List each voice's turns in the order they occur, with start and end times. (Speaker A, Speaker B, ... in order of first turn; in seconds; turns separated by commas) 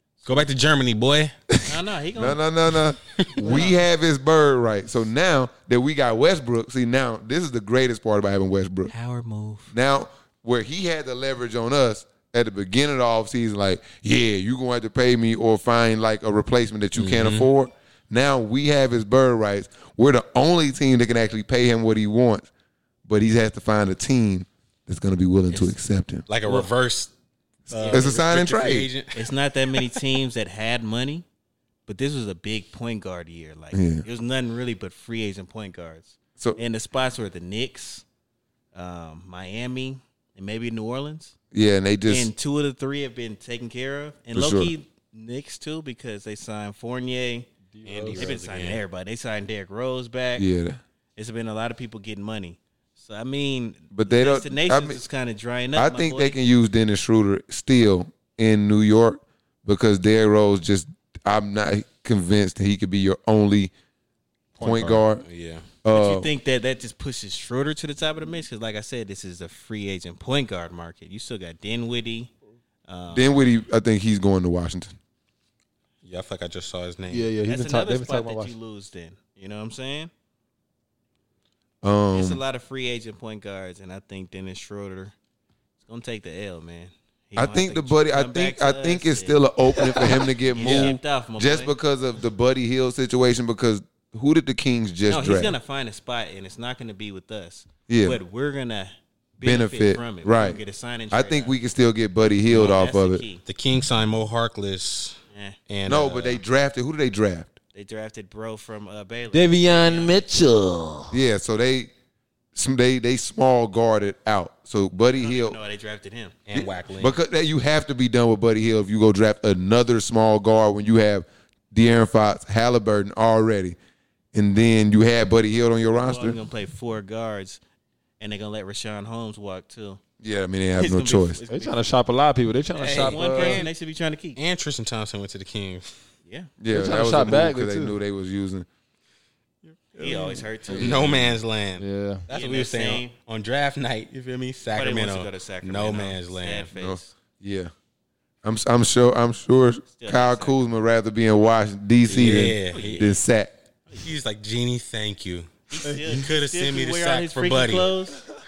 Speaker A: 0.2-1.3, Speaker B: 1.6-2.4, Speaker C: 1.7-8.9, Speaker B: 3.4-3.8, Speaker B: 8.9-9.7, Speaker C: 9.7-22.5, Speaker A: 16.9-17.5, Speaker C: 23.1-26.2, Speaker B: 25.5-25.8, Speaker A: 26.3-27.1, Speaker A: 27.7-29.3, Speaker B: 27.7-28.1, Speaker C: 27.7-28.9, Speaker B: 29.1-31.2, Speaker B: 31.9-38.0, Speaker C: 33.7-34.0, Speaker B: 38.7-41.3, Speaker C: 41.5-42.3, Speaker B: 42.0-47.5, Speaker C: 44.3-44.7, Speaker D: 47.7-48.3, Speaker A: 47.8-48.8, Speaker B: 48.1-50.5, Speaker C: 50.4-50.8, Speaker B: 51.1-56.4, Speaker C: 53.9-55.0, Speaker C: 55.7-63.7, Speaker C: 64.6-65.2, Speaker D: 64.6-65.0, Speaker A: 65.2-65.6, Speaker C: 65.8-66.3, Speaker B: 65.9-72.3, Speaker B: 72.9-73.3, Speaker C: 73.1-74.9, Speaker A: 76.0-77.3, Speaker D: 77.1-78.5, Speaker B: 77.4-80.1, Speaker C: 81.8-82.4, Speaker B: 82.1-85.1, Speaker B: 85.8-89.4, Speaker C: 87.3-95.5, Speaker B: 90.5-91.7, Speaker A: 90.6-90.9, Speaker B: 95.1-101.5, Speaker C: 97.9-98.2, Speaker C: 99.4-100.6, Speaker C: 101.1-103.2, Speaker B: 102.5-103.4, Speaker A: 103.4-106.4, Speaker B: 105.3-105.6, Speaker C: 105.8-107.5, Speaker B: 107.7-110.2, Speaker D: 109.3-111.2, Speaker C: 111.1-111.9, Speaker C: 112.5-115.6, Speaker B: 115.2-116.4, Speaker A: 116.5-117.2, Speaker C: 116.5-123.8, Speaker C: 124.3-126.4, Speaker B: 125.9-127.6, Speaker B: 128.2-130.0, Speaker C: 130.2-131.4, Speaker B: 130.8-131.8, Speaker D: 131.5-133.6, Speaker B: 132.7-134.4, Speaker A: 132.8-133.7, Speaker A: 134.3-135.9, Speaker B: 136.2-136.5, Speaker C: 136.6-138.7, Speaker D: 136.7-137.9, Speaker D: 139.8-140.4, Speaker B: 139.9-141.2, Speaker C: 140.7-141.4, Speaker A: 140.7-146.7, Speaker D: 141.8-142.2, Speaker B: 142.3-143.1, Speaker B: 144.7-147.1, Speaker C: 146.8-147.7, Speaker C: 148.4-153.6, Speaker B: 149.9-150.6, Speaker A: 152.1-153.1, Speaker B: 152.7-153.2, Speaker A: 154.0-157.9, Speaker B: 155.7-158.2